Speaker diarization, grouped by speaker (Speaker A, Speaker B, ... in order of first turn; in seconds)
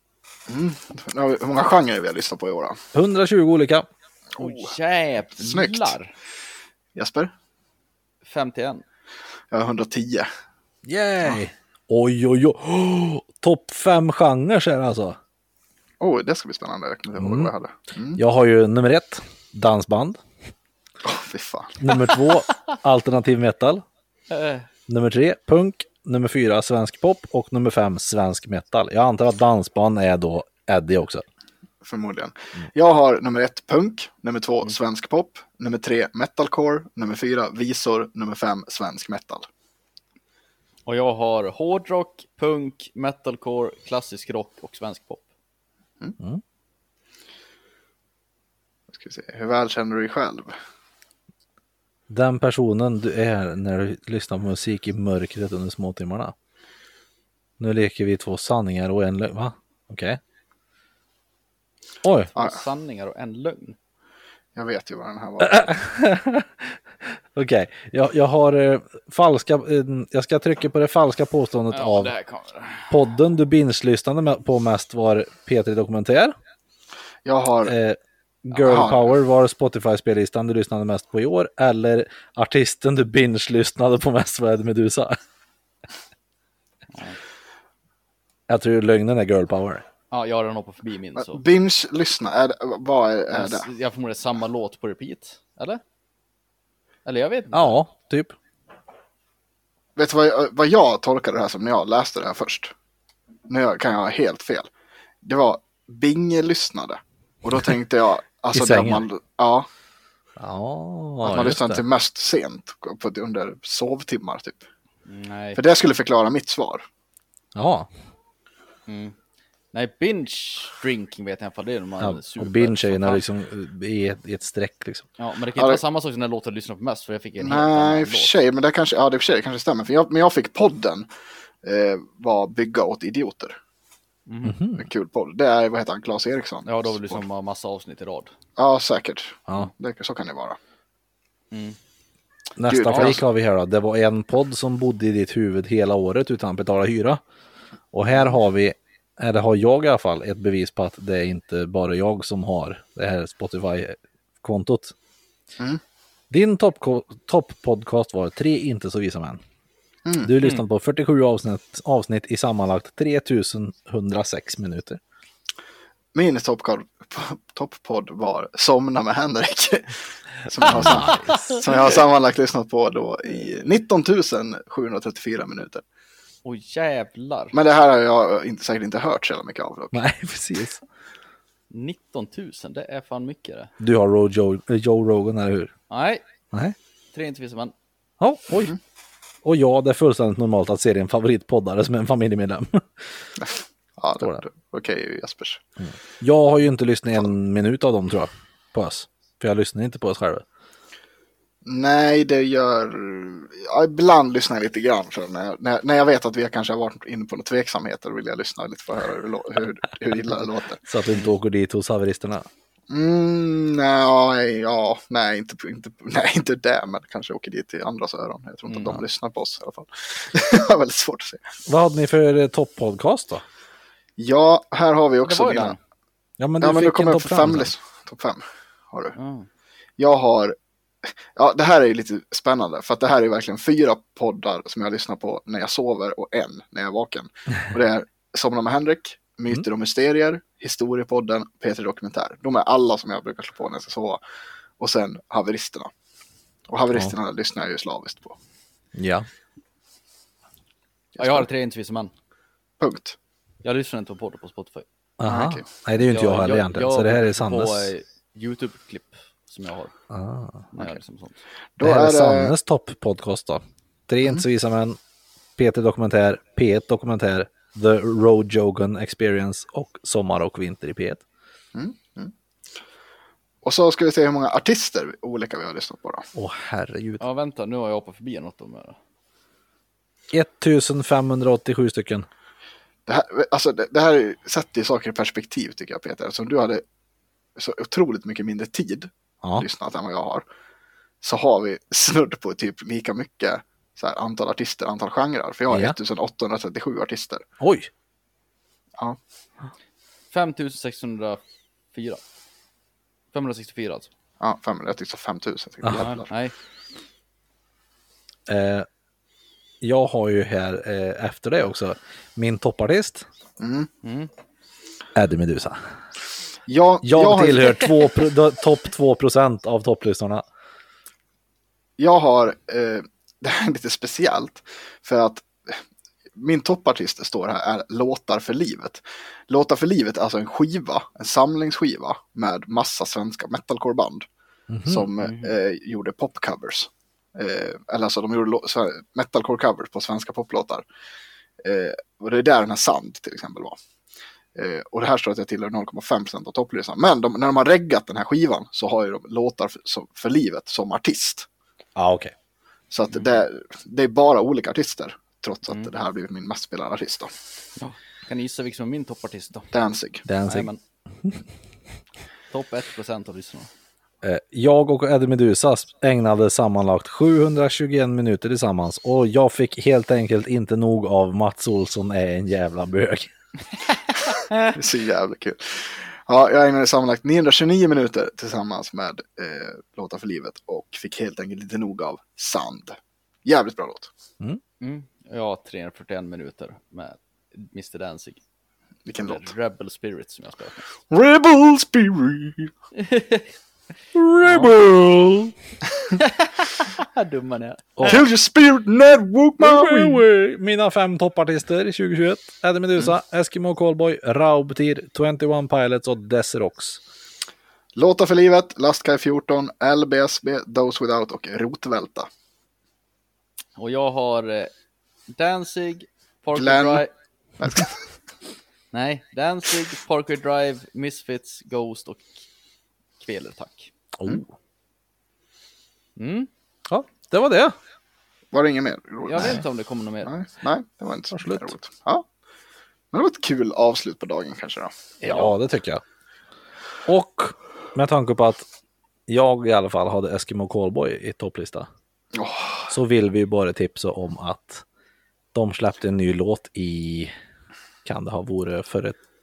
Speaker A: 0.5-2.8, 4.4-4.7, 5.4-6.0, 7.0-7.3, 9.5-10.3, 16.0-18.2, 21.0-21.8, 31.8-39.5, 48.9-50.5, 64.5-65.6, 77.2-77.7, 78.6-79.2, 91.2-93.7, 100.0-102.7, 103.5-104.7, 105.2-109.7, 111.2-114.7, 115.5-116.9, 125.5-125.8, 127.4-131.1, 131.6-133.6, 134.8-137.2, 138.6-140.6, 142.7-143.2, 160.1-160.3, 166.1-175.8, 177.5-180.0, 193.4-195.6, 201.7-210.9, 212.9-221.4, 224.2-225.8, 226.6-229.2, 230.0-244.2, 244.8-245.9, 246.7-248.4, 251.2-251.5, 252.8-253.2, 255.3-255.6, 261.8-262.5, 271.8-272.3, 273.6-276.3, 283.1-286.8, 287.6-290.4, 291.2-297.4, 304.4-306.3, 313.6-313.9, 316.7-318.1, 322.0-325.8, 326.4-334.3, 334.9-340.9, 341.6-343.8, 344.6-351.5, 352.9-357.3, 359.7-360.2, 374.7-384.1, 389.1-389.5, 391.1-392.7, 398.0-400.2, 407.9-412.3, 416.5-417.1, 417.6-418.0, 428.5-429.6, 430.2-432.2, 433.1-435.5, 442.3-442.9
Speaker B: 2.9-3.9, 10.9-15.2, 17.2-17.5, 18.2-20.2, 21.8-23.8, 24.9-31.2, 52.1-56.4, 57.6-60.2, 62.0-62.3, 65.4-72.1, 72.9-76.3, 77.7-85.2, 88.5-89.8, 97.5-98.3, 108.5-109.0, 110.4-111.8, 117.5-117.9, 122.0-125.1, 134.4-134.9, 142.6-147.2, 147.9-154.9, 156.3-159.4, 160.2-165.0, 170.7-171.6, 179.9-180.8, 183.8-185.7, 188.2-188.8, 189.4-193.0, 195.8-200.4, 210.9-212.5, 221.7-223.4, 226.4-227.7, 248.9-249.3, 255.2-257.9, 260.1-260.7, 261.8-265.0, 265.6-271.2, 276.4-277.2, 280.3-282.3, 295.7-296.0, 297.6-297.9, 308.5-308.9, 309.8-313.3, 315.1-315.8, 317.0-320.4, 334.7-335.1, 352.0-352.3, 360.3-360.7, 364.2-373.3, 394.1-395.5, 399.6-407.0, 424.2-424.5, 426.9-427.8, 431.3-431.7, 435.2-436.0, 437.1-438.7, 439.3-441.9, 442.9-444.9, 445.5-447.3, 448.1-449.2
Speaker C: 4.4-6.1, 8.2-8.8, 21.9-22.4, 24.3-24.7, 40.9-45.2, 62.3-63.8, 71.7-72.9, 86.9-87.2, 90.1-91.4, 93.3-95.8, 97.0-97.8, 115.1-115.6, 118.9-119.2, 119.7-123.2, 125.2-128.3, 134.3-134.6, 136.7-138.3, 141.5-141.8, 170.8-171.5, 176.4-177.6, 181.7-183.7, 185.9-186.2, 187.1-187.7, 218.7-219.0, 225.3-225.8, 229.2-229.5, 251.2-252.1, 253.6-254.8, 256.0-259.9, 260.7-261.4, 277.2-279.0, 300.3-301.4, 301.9-302.2, 303.3-304.1, 305.9-306.5, 314.0-314.3, 335.2-335.5, 357.8-359.7, 360.5-360.8, 362.5-363.7, 374.5-374.8, 384.8-388.4, 389.2-390.9, 393.0-393.5, 394.4-394.7, 396.1-398.2, 413.8-414.7, 415.3-417.1, 418.9-422.4, 423.2-423.9, 426.2-426.5, 429.2-430.3